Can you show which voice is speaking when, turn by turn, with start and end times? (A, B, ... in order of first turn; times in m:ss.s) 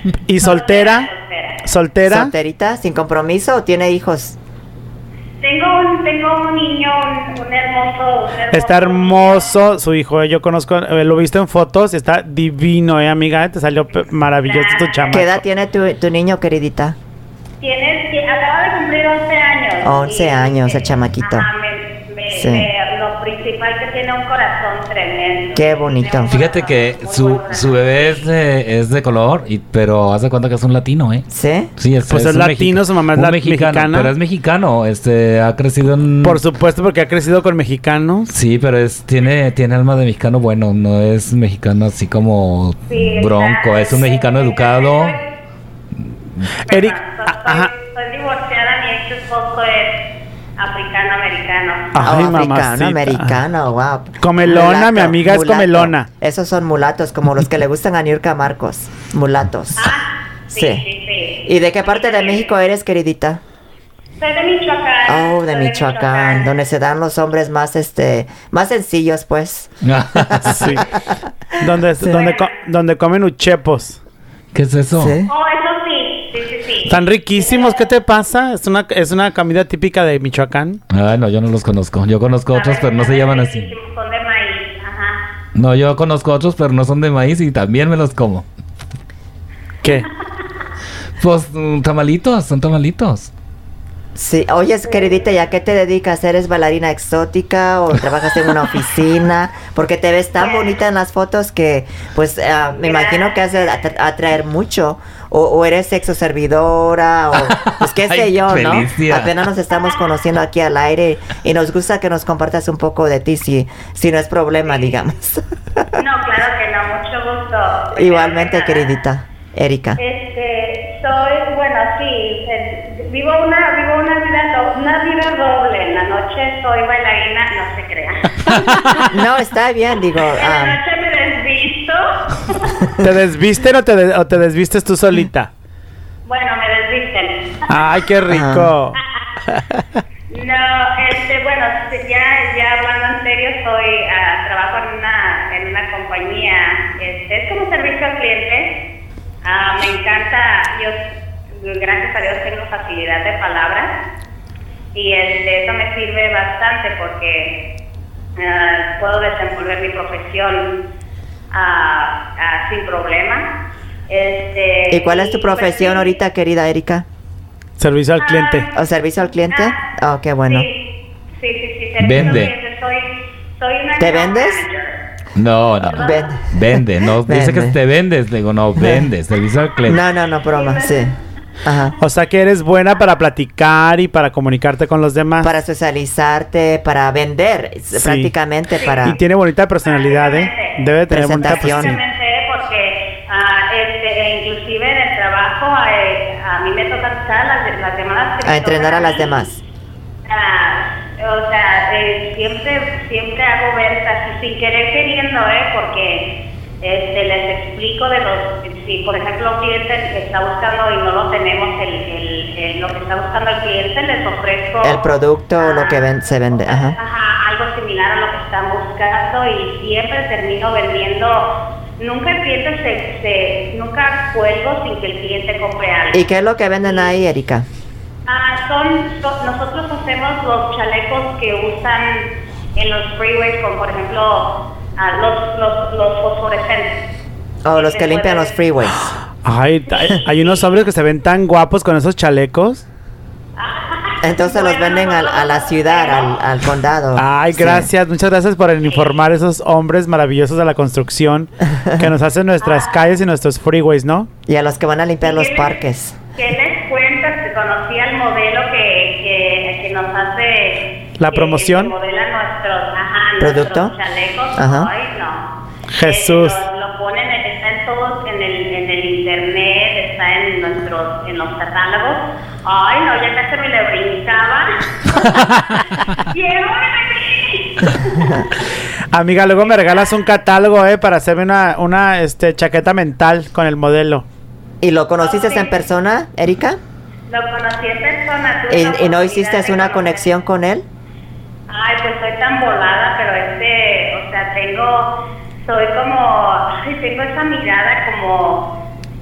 0:00.3-0:01.1 A
0:00.4-0:01.7 B
0:01.6-0:02.3 A
0:02.0-0:04.4 C
0:05.4-0:09.5 B
0:08.5-0:15.4 A
0:14.4-0:15.2 B
0:15.1-0:17.0 C
0:17.6-0:28.3 B
0:19.8-0:21.5 C
0:22.3-0:22.7 C
0:25.5-0:26.3 C
0:26.3-0:31.2 D
0:31.3-0:31.7 C
0:31.8-0:36.4 D
0:32.1-0:34.1 A
0:36.2-0:38.3 A
0:38.3-0:45.2 D
0:42.9-0:45.3 B
0:46.6-0:52.2 B
0:46.7-0:47.7 A
0:51.9-0:53.4 A
0:52.0-0:59.9 C
0:54.2-0:56.1 A
0:59.8-1:02.5 B
1:00.5-1:00.8 C
1:01.4-1:03.4 C
1:04.2-1:06.5 B
1:05.0-1:11.3 C
1:09.8-1:10.8 D
1:10.4-1:10.9 A
1:11.6-1:14.0 A
1:12.1-1:12.6 B
1:14.5-1:15.2 D
1:14.9-1:15.3 C
1:15.2-1:17.8 B
1:16.8-1:20.8 A
1:20.9-1:23.7 D
1:22.5-1:25.2 B
1:25.5-1:28.4 D
1:31.2-1:33.3 D
1:34.1-1:56.0 C
1:40.4-1:40.7 B
1:42.7-1:43.4 B
1:47.4-1:49.3 D
1:56.0-1:58.8 B
1:57.9-2:00.0 C
2:00.0-2:09.2 B
2:09.1-2:10.8 C
2:10.3-2:12.9 B
2:13.0-2:15.5 A
2:16.2-2:17.8 B
2:17.7-2:19.0 A
2:18.3-2:18.7 C
2:18.9-2:19.4 B
2:19.5-2:19.8 A
2:20.3-2:28.8 B
2:29.4-2:33.9 B
2:34.9-2:37.6 B
2:38.4-2:40.8 B
2:41.5-2:43.5 B
2:44.1-2:46.2 B
2:44.9-2:47.0 C
2:47.8-2:48.6 A
2:48.2-2:48.8 B
2:48.7-2:50.7 C
2:49.5-2:49.8 B
2:50.5-2:55.0 B
2:52.0-2:52.5 D
2:54.0-2:54.6 C
2:55.4-3:00.0 D
2:55.8-2:56.4 B
2:55.9-2:57.8 C
2:58.8-2:59.1 C
2:59.8-3:01.1 C
3:00.5-3:01.1 B
3:01.6-3:02.0 C
3:02.0-3:05.5 A
3:05.4-3:09.2 C
3:08.0-3:08.3 A
3:08.7-3:09.0 B
3:09.0-3:12.0 A
3:09.8-3:19.4 B
3:11.1-3:12.0 C
3:18.4-3:19.6 C
3:20.2-3:46.2 B
3:34.8-3:37.0 C
3:46.1-3:47.6 C
3:46.8-3:47.1 B
3:48.2-3:57.1 B
3:57.6-3:59.1 C
3:57.7-3:58.6 B
3:59.4-4:02.8 A
3:59.9-4:00.7 B
4:03.6-4:06.4 B
4:04.2-4:07.9 C
4:07.2-4:14.3 A
4:08.8-4:09.2 B
4:12.6-4:13.0 B
4:14.5-4:16.2 C
4:15.2-4:15.8 B
4:16.3-4:25.5 B
4:21.2-4:21.9 A
4:23.4-4:23.9 C
4:24.5-4:24.9 C
4:25.9-4:26.6 A
4:26.0-4:38.5 B
4:39.1-4:44.2 A
4:39.6-4:40.2 B
4:44.8-4:46.8 C
4:45.2-4:45.8 B
4:47.3-4:50.3 B
4:48.7-4:50.8 C
4:51.7-4:58.7 B